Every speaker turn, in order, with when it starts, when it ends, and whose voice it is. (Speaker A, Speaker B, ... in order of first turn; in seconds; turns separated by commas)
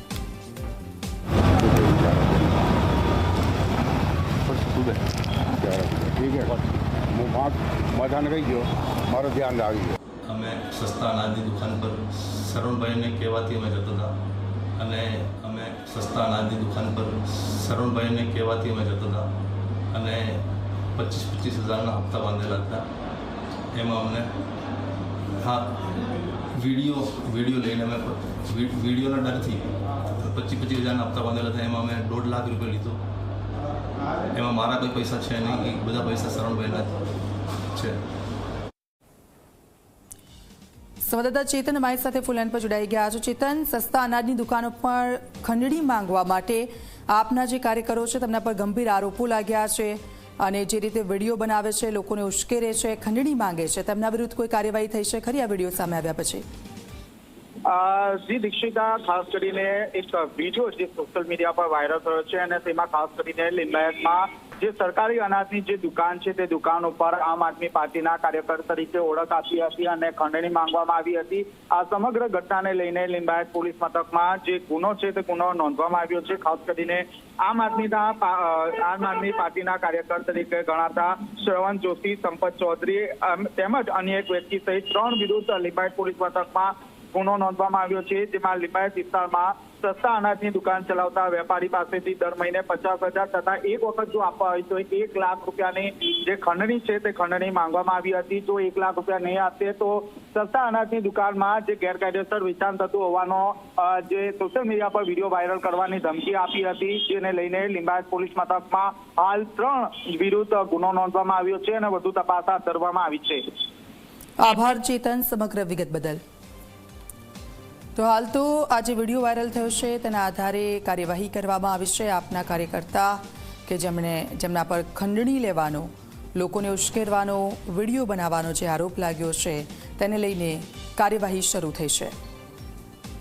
Speaker A: 1.6-2.5, Speaker B: 4.4-5.0, Speaker A: 5.6-9.9, Speaker B: 10.2-14.1, Speaker B: 14.8-19.3, Speaker B: 19.9-22.9, Speaker B: 23.7-24.3, Speaker B: 25.4-26.0, Speaker B: 26.5-33.0, Speaker B: 34.3-37.0, Speaker B: 37.7-38.0, Speaker C: 41.0-56.4, Speaker D: 57.6-113.4, Speaker C: 114.4-116.2, Speaker C: 118.0-132.1